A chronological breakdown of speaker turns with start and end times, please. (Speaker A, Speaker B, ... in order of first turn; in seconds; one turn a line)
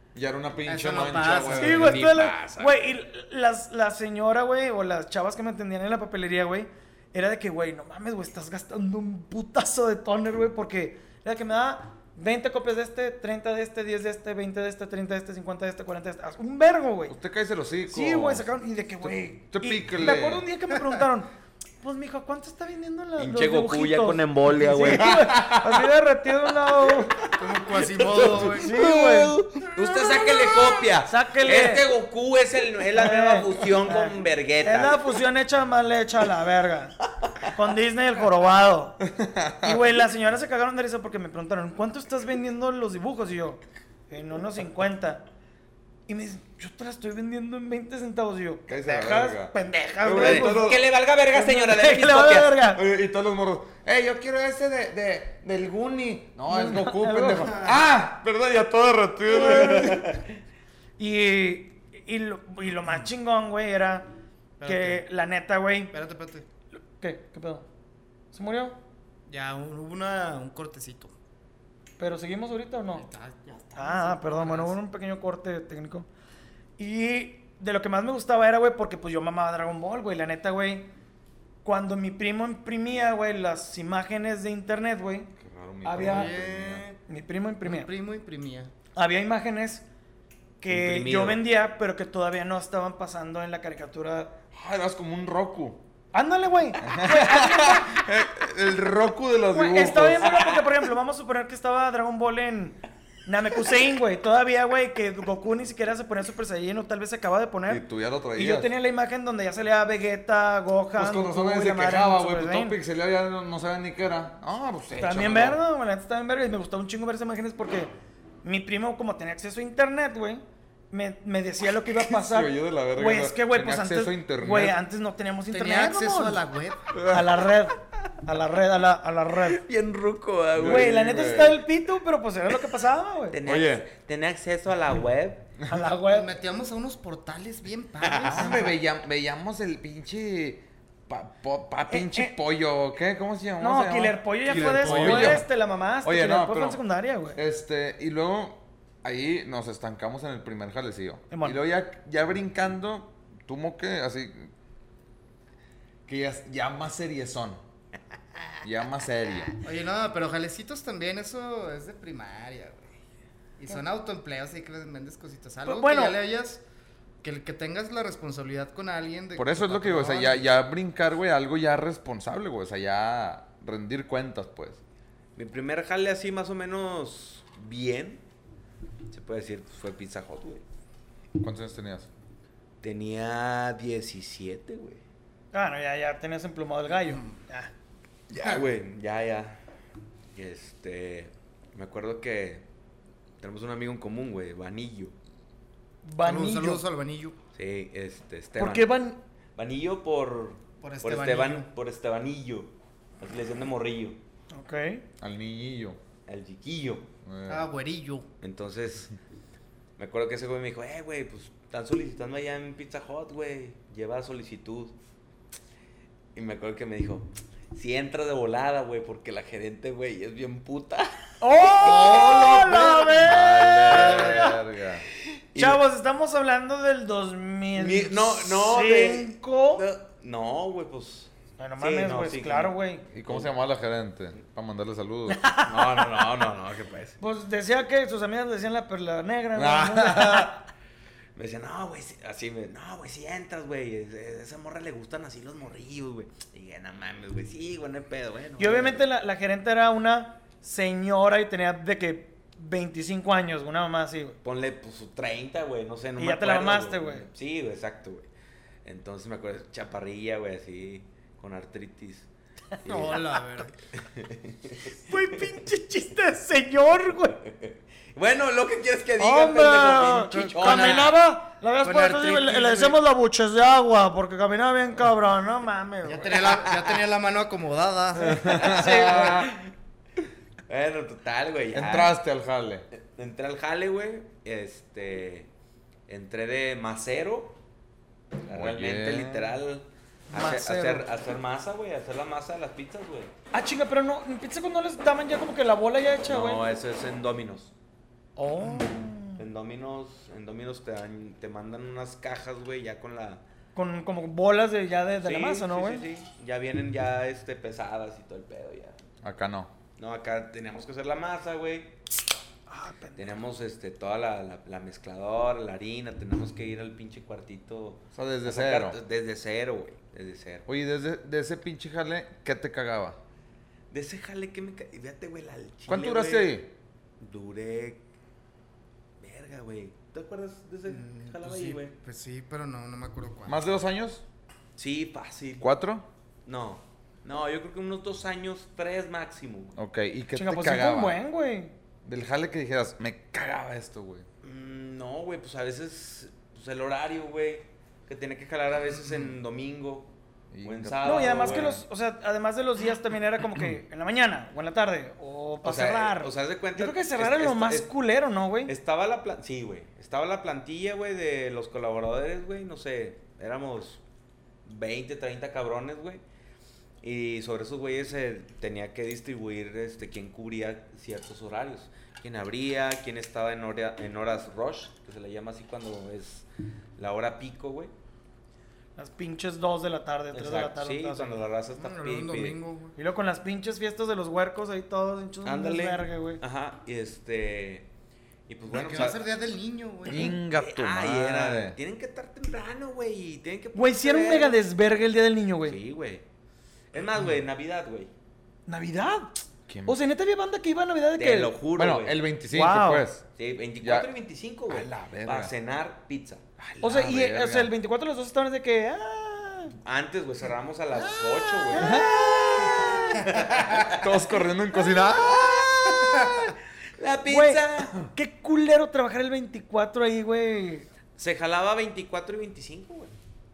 Speaker A: 0.1-2.4
Speaker B: 0.7-2.0
Speaker C: 1.5-17.2
Speaker D: 2.1-2.7
Speaker A: 17.1-18.5
Speaker C: 17.9-21.3
Speaker A: 19.0-20.5
Speaker C: 21.8-27.2
Speaker D: 23.2-25.5
Speaker A: 25.0-25.8
Speaker D: 26.9-35.0
Speaker B: 27.4-28.8
Speaker C: 28.5-29.4
Speaker C: 31.1-31.9
Speaker C: 33.0-39.0
Speaker A: 39.0-39.8
Speaker C: 39.6-45.2
Speaker C: 46.1-50.7
Speaker A: 48.7-50.9
Speaker D: 50.1-52.6
Speaker C: 51.3-52.8
Speaker A: 52.7-60.2
Speaker C: 56.5-57.7
Speaker C: 59.3-60.0
Speaker D: 59.7-60.0
Speaker C: 61.0-64.1
Speaker B: 64.6-65.0
Speaker C: 64.7-65.9
Speaker B: 65.9-66.5
Speaker C: 66.8-67.7
Speaker C: 68.3-68.8
Speaker B: 69.3-71.1
Speaker C: 72.0-73.1
Speaker B: 73.0-74.8
Speaker C: 73.8-76.1
Speaker C: 76.8-80.9
Speaker C: 81.6-85.3
Speaker A: 85.4-86.8
Speaker C: 85.8-86.3
Speaker B: 86.0-87.0
Speaker C: 87.1-87.9
Speaker B: 87.6-88.7
Speaker C: 89.0-89.8
Speaker C: 90.6-94.4
Speaker D: 90.7-91.4
Speaker A: 94.5-95.8
Speaker C: 96.1-98.0
Speaker A: 96.8-100.4
Speaker C: 99.5-107.8
Speaker A: 107.7-108.7
Speaker C: 108.4-112.8
Speaker A: 111.0-115.6
Speaker C: 115.0-117.9
Speaker C: 118.4-126.4
Speaker A: 122.0-124.8
Speaker B: 125.5-126.8
Speaker A: 126.9-127.3
Speaker C: 127.1-129.6
Speaker D: 129.5-131.0
Speaker A: 130.6-131.6
Speaker C: 130.6-133.4
Speaker D: 133.3-135.5
Speaker A: 133.4-133.8
Speaker C: 135.7-136.3
Speaker B: 136.0-138.8
Speaker D: 138.0-138.7
Speaker A: 138.3-145.5
Speaker C: 141.9-142.3
Speaker C: 143.6-147.4
Speaker B: 144.5-145.4
Speaker A: 146.0-146.8
Speaker A: 147.3-154.5
Speaker C: 151.3-151.6
Speaker A: 156.1-157.6
Speaker A: 158.6-159.5
Speaker B: 159.6-162.9
Speaker B: 163.6-166.6
Speaker C: 165.7-166.2
Speaker B: 167.2-170.5
Speaker A: 169.4-174.8
Speaker D: 175.4-178.2
Speaker D: 179.1-180.6
Speaker A: 181.4-182.1
Speaker D: 182.8-185.0
Speaker C: 185.5-187.7
Speaker D: 188.3-189.6
Speaker B: 188.4-188.6
Speaker D: 190.3-192.7
Speaker D: 193.4-195.1
Speaker C: 196.0-196.8
Speaker B: 196.2-197.4
Speaker D: 197.5-198.9
Speaker C: 198.6-199.2
Speaker D: 199.6-204.2
Speaker B: 200.8-201.7
Speaker C: 204.5-205.0
Speaker A: 205.2-206.0
Speaker D: 206.3-207.1
Speaker A: 207.2-207.7
Speaker B: 207.5-208.3
Speaker D: 208.4-209.1
Speaker D: 210.0-214.9
Speaker D: 216.3-223.2
Speaker C: 221.4-224.6
Speaker A: 221.9-222.4
Speaker B: 221.9-222.8
Speaker A: 223.2-225.1
Speaker D: 223.9-224.5
Speaker D: 225.4-225.8
Speaker C: 225.6-229.8
Speaker D: 227.8-232.8
Speaker C: 231.6-233.0
Speaker A: 233.1-235.4
Speaker C: 235.3-236.0
Speaker D: 235.7-237.2
Speaker C: 237.2-240.6
Speaker A: 239.6-240.6
Speaker D: 241.4-249.0
Speaker C: 248.6-254.4
Speaker D: 254.4-258.3
Speaker C: 256.2-257.3
Speaker D: 258.9-262.3
Speaker D: 262.8-263.4
Speaker B: 262.9-263.7
Speaker D: 263.9-265.5
Speaker C: 265.1-267.4
Speaker D: 267.4-271.1
Speaker C: 269.2-276.4
Speaker B: 270.3-271.1
Speaker B: 271.8-273.0
Speaker B: 276.1-279.1
Speaker D: 276.3-277.0
Speaker A: 278.2-279.5
Speaker D: 278.5-279.7
Speaker C: 278.6-279.3
Speaker D: 280.7-282.2
Speaker A: 281.7-282.9
Speaker D: 282.9-285.5
Speaker D: 286.1-287.6
Speaker D: 288.4-293.3
Speaker A: 288.5-289.6
Speaker C: 290.3-291.1
Speaker C: 293.5-296.7
Speaker D: 296.2-297.7
Speaker C: 298.4-299.4
Speaker D: 299.4-303.4
Speaker C: 303.8-306.1
Speaker D: 305.2-309.0
Speaker A: 309.2-309.7
Speaker D: 310.0-311.9
Speaker C: 312.7-313.3
Speaker D: 313.2-320.7
Speaker A: 318.1-319.0
Speaker A: 320.7-323.2
Speaker D: 323.9-326.6
Speaker A: 325.9-326.7
Speaker D: 327.2-328.0
Speaker D: 329.2-331.9
Speaker B: 330.9-333.8
Speaker A: 333.5-334.2
Speaker D: 334.8-335.7
Speaker A: 335.6-336.1
Speaker D: 336.5-339.8
Speaker A: 339.8-341.2
Speaker C: 340.4-341.7
Speaker A: 342.1-344.3
Speaker D: 344.4-350.1
Speaker A: 350.5-351.8
Speaker D: 350.6-351.8
Speaker C: 351.0-358.7
Speaker D: 355.6-357.9
Speaker D: 358.7-364.0
Speaker D: 364.6-366.2
Speaker D: 367.0-377.9
Speaker C: 379.0-381.4
Speaker D: 380.3-382.6
Speaker B: 381.8-383.0
Speaker C: 383.0-386.4
Speaker D: 385.4-387.9
Speaker D: 388.5-389.3
Speaker B: 388.7-390.4
Speaker A: 390.1-391.8
Speaker D: 390.1-394.6
Speaker C: 393.8-395.8
Speaker D: 395.6-396.2
Speaker D: 396.9-398.1
Speaker C: 398.7-399.3
Speaker A: 399.7-400.0
Speaker C: 399.9-401.6
Speaker D: 401.2-402.2
Speaker A: 401.8-403.2
Speaker C: 402.5-403.1
Speaker D: 403.4-406.9
Speaker A: 403.8-404.1
Speaker A: 404.7-405.5
Speaker A: 406.8-407.7
Speaker C: 406.8-409.7
Speaker D: 409.8-414.4
Speaker A: 411.7-412.2
Speaker C: 411.7-412.1
Speaker B: 413.4-413.6
Speaker A: 413.9-415.6
Speaker D: 415.1-418.1
Speaker B: 415.9-416.5
Speaker C: 417.3-420.9
Speaker D: 421.2-423.1